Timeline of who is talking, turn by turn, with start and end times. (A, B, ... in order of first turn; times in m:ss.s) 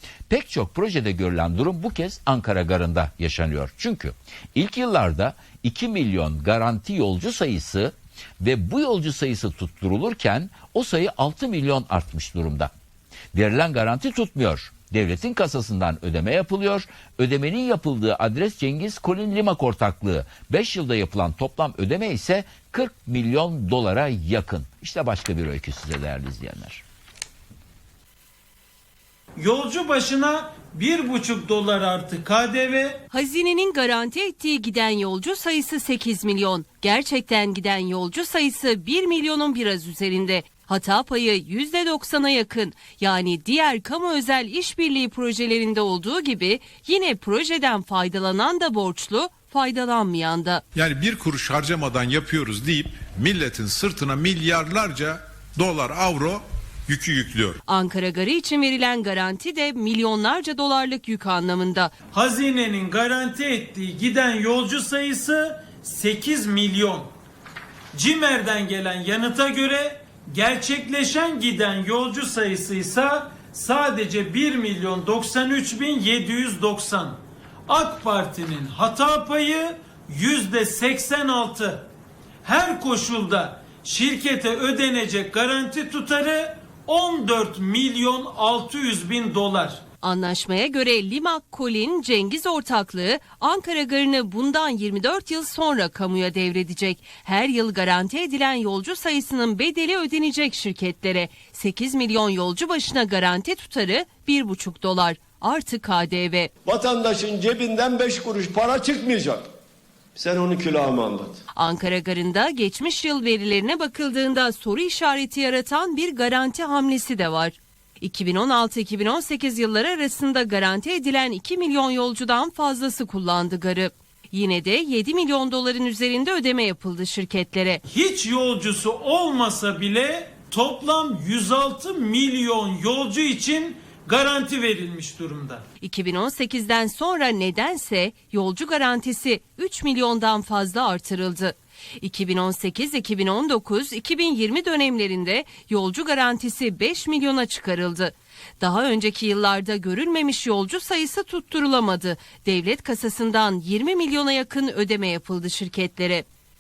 0:00.3-0:12.7 A
0:13.3-0:26.8 A
0:29.4-0:33.0 B
0:33.1-0:50.6 C
0:50.8-0:57.6 D
0:57.7-1:01.9 C
1:02.1-1:07.1 B
1:07.9-1:21.9 B
1:22.4-1:29.8 B
1:30.0-1:46.5 C
1:46.6-1:49.4 E
1:50.2-1:51.4 E
1:51.6-2:07.8 C
2:07.9-2:15.6 B
2:15.8-2:36.2 C